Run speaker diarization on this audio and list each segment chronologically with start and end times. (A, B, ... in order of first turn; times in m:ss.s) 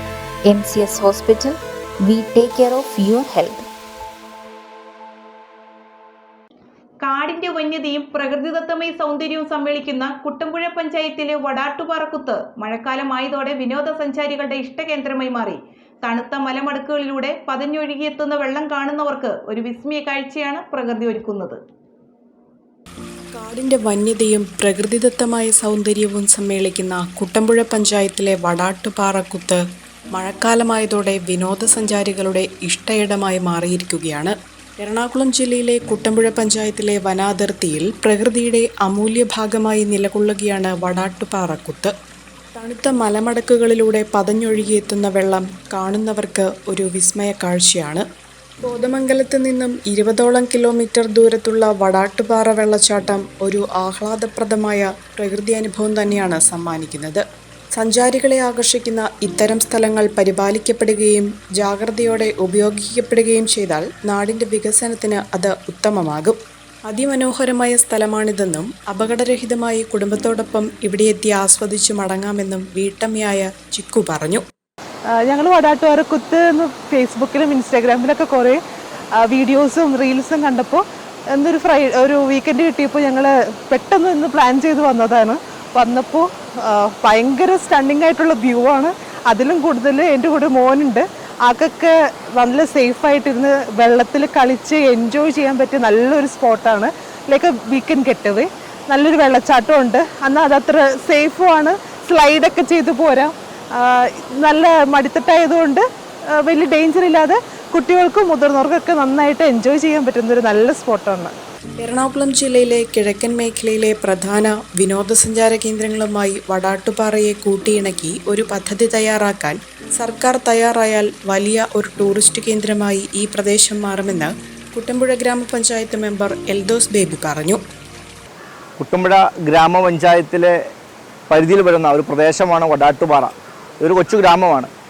0:00.5-0:03.6 A
0:07.0-0:21.6 B
0:23.3-0:29.6 C
0:30.1-0:41.9 C
0:42.6-0:48.0 C
0:48.6-0:57.2 C
0:57.8-1:06.4 C
1:06.9-1:14.4 C
1:15.2-1:18.6 D
1:19.2-1:20.8 D
1:21.3-1:45.8 D
1:46.4-1:51.3 D
1:51.8-2:07.6 C
2:08.8-2:10.5 E
2:11.3-2:14.7 E